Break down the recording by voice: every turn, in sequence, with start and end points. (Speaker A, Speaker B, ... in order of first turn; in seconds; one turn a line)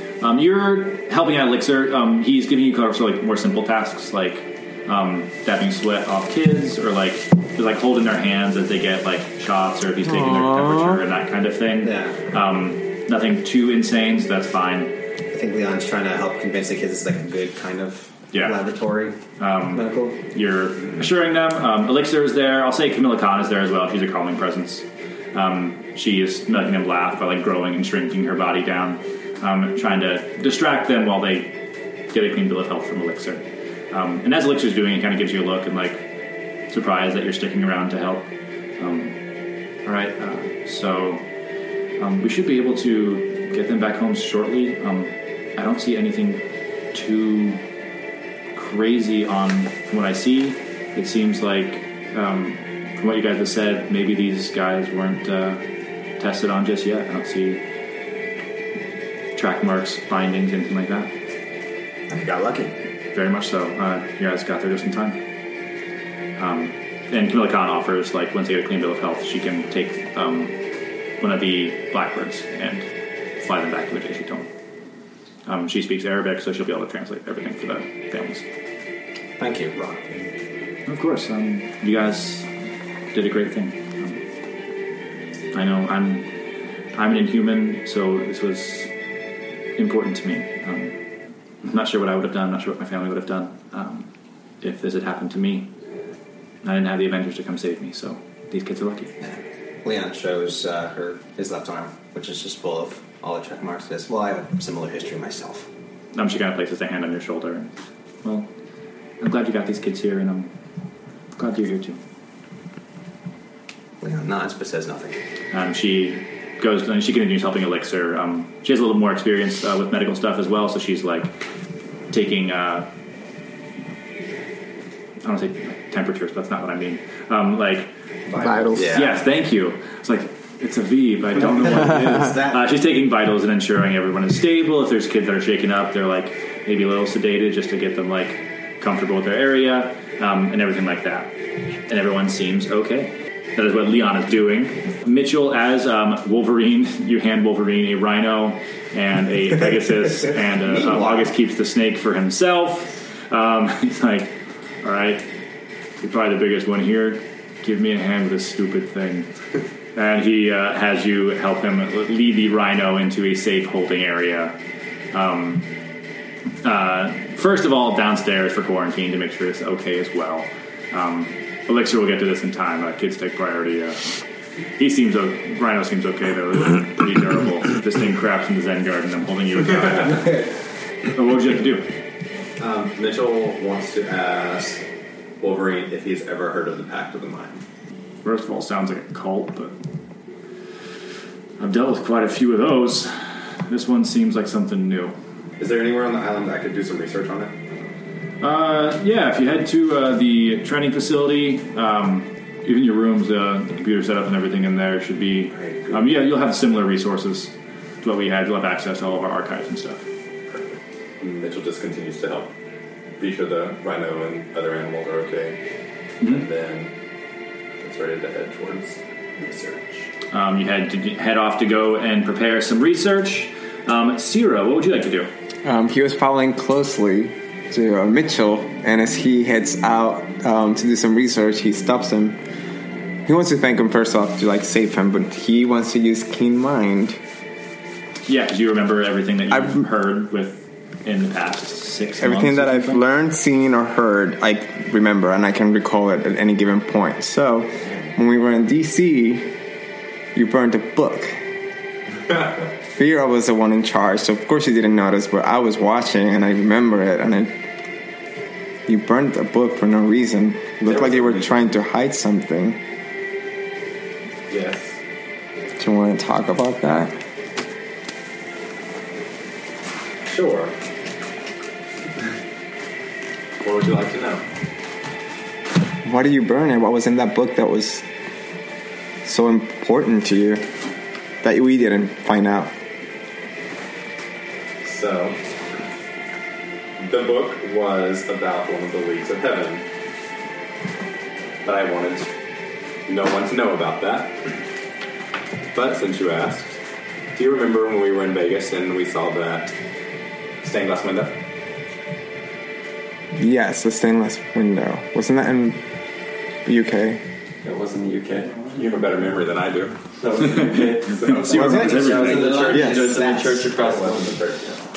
Speaker A: 0.2-14.9
Speaker B: 10.1-11.0
Speaker C: 11.8-12.2
Speaker C: 15.3-19.2
Speaker A: 18.3-18.6
Speaker A: 19.4-31.6
Speaker C: 19.7-20.2
Speaker A: 32.1-36.0
Speaker A: 36.7-39.1
Speaker A: 39.8-41.2
Speaker A: 42.0-46.4
Speaker A: 46.9-47.6
Speaker A: 48.5-55.6
Speaker A: 56.2-57.6
Speaker A: 59.3-61.1
Speaker C: 62.1-62.7
Speaker A: 63.1-65.2
Speaker A: 66.4-70.5
Speaker A: 71.2-72.8
Speaker A: 73.4-74.5
Speaker A: 75.5-78.4
Speaker C: 79.4-80.1
Speaker A: 80.9-82.5
Speaker A: 83.1-84.2
Speaker A: 85.5-86.3
Speaker A: 86.9-88.9
Speaker A: 89.8-91.0
Speaker A: 91.6-94.1
Speaker A: 94.6-95.7
Speaker A: 96.6-99.1
Speaker C: 99.8-105.7
Speaker A: 106.1-107.7
Speaker A: 108.2-108.5
Speaker A: 109.2-110.5
Speaker A: 111.3-112.0
Speaker C: 114.0-115.2
Speaker A: 115.5-121.3
Speaker A: 122.1-122.9
Speaker A: 125.2-127.9
Speaker C: 128.3-128.8
Speaker B: 128.5-128.8
Speaker D: 128.7-129.1
Speaker A: 128.8-141.3
Speaker C: 131.3-132.6
Speaker A: 141.9-155.3
Speaker C: 150.7-151.3
Speaker A: 156.0-159.3
Speaker A: 159.9-164.6
Speaker A: 165.1-165.6
Speaker A: 166.6-174.0
Speaker A: 174.8-180.4
Speaker A: 181.1-181.9
Speaker D: 182.6-184.8
Speaker D: 185.4-187.6
Speaker A: 188.2-189.7
Speaker A: 191.6-193.2
Speaker A: 193.7-195.1
Speaker D: 195.6-197.6
Speaker A: 198.4-210.0
Speaker D: 205.5-206.0
Speaker D: 210.5-212.5
Speaker D: 213.2-215.6
Speaker D: 216.2-216.9
Speaker D: 217.8-220.1
Speaker A: 220.3-225.3
Speaker B: 225.6-232.4
Speaker B: 233.3-237.2
Speaker A: 238.3-243.0
Speaker B: 239.5-239.8
Speaker B: 242.2-249.5
Speaker B: 250.3-251.4
Speaker B: 252.9-257.6
Speaker B: 258.9-262.8
Speaker D: 260.9-261.5
Speaker D: 264.5-265.0
Speaker B: 265.8-267.1
Speaker D: 270.2-270.7
Speaker D: 273.6-274.4
Speaker B: 276.0-278.1
Speaker B: 279.2-280.6
Speaker B: 281.4-282.7
Speaker D: 284.8-285.4
Speaker D: 287.0-289.8
Speaker D: 291.6-292.3
Speaker D: 293.1-294.4
Speaker D: 295.7-296.8
Speaker D: 297.3-299.7
Speaker D: 300.6-301.4
Speaker B: 303.3-305.8
Speaker B: 306.6-307.2
Speaker E: 307.6-308.6
Speaker D: 308.7-310.0
Speaker E: 310.2-314.4
Speaker D: 311.1-312.0
Speaker A: 311.2-312.6
Speaker C: 311.3-313.7
Speaker B: 311.6-312.1
Speaker B: 312.7-313.1
Speaker D: 313.6-314.8